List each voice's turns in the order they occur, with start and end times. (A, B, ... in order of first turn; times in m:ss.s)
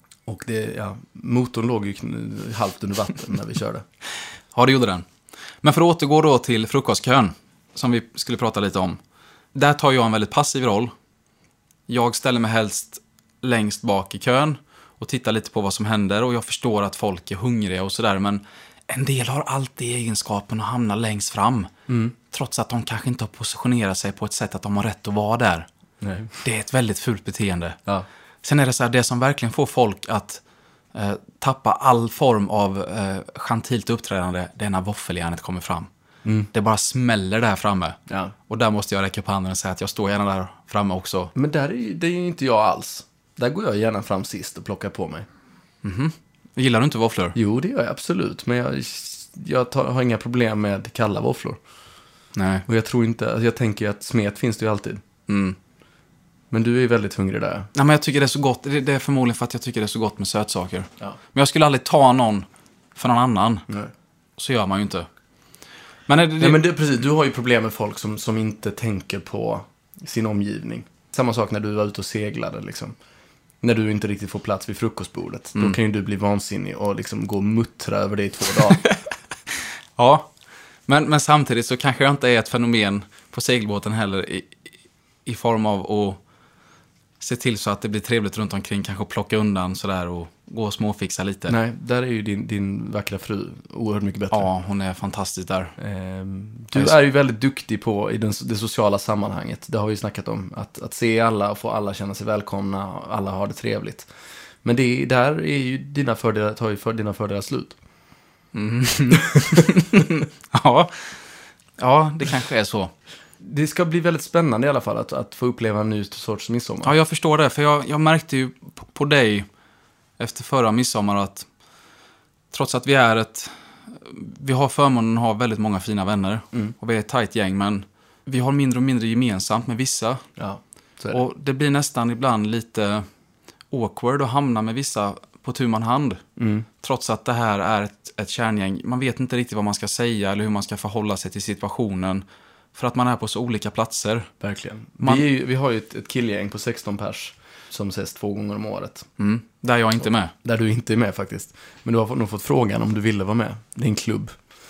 0:00.3-0:03.8 A
0:04.5-0:05.1 B
0:05.6-0:09.0 B
0:09.5-0:10.9 B
0:11.9-0:21.7 B
0:21.9-0:22.2 A
0:22.3-0:25.7 B
0:26.0-0:26.4 A
0:26.4-0:27.8 B
0:28.4-0:30.4 B
0:30.9-0:35.9 B
0:36.5-0:41.3 B
0:38.1-0:38.3 A
0:41.4-0:45.3 A
0:45.8-0:47.4 B
0:47.4-0:51.6 A
0:52.4-0:52.6 B
0:52.7-0:55.0 A
0:55.3-0:55.6 B
0:56.5-0:57.7 A
0:57.8-1:03.7 B
1:04.4-1:05.1 B
1:06.1-1:06.6 B
1:06.4-1:13.0 A
1:13.6-1:18.9 A
1:20.0-1:20.3 B
1:20.9-1:24.6 B
1:25.2-1:26.2 B
1:27.2-1:31.6 B
1:31.5-1:34.5 A
1:34.3-1:35.7 B
1:35.8-1:44.1 A
1:44.6-1:47.8 A
1:48.5-1:51.2 B
1:49.4-1:49.7 A
1:51.8-1:52.9 B
1:53.4-1:56.9 A
1:56.8-1:59.5 B
2:00.2-2:01.5 B
2:02.5-2:10.2 B
2:10.4-2:11.2 A
2:11.1-2:13.0 B
2:13.7-2:16.2 B
2:16.4-2:16.7 A
2:16.8-2:24.3 B
2:24.4-2:29.1 A
2:29.2-2:30.3 B
2:30.4-2:34.3 A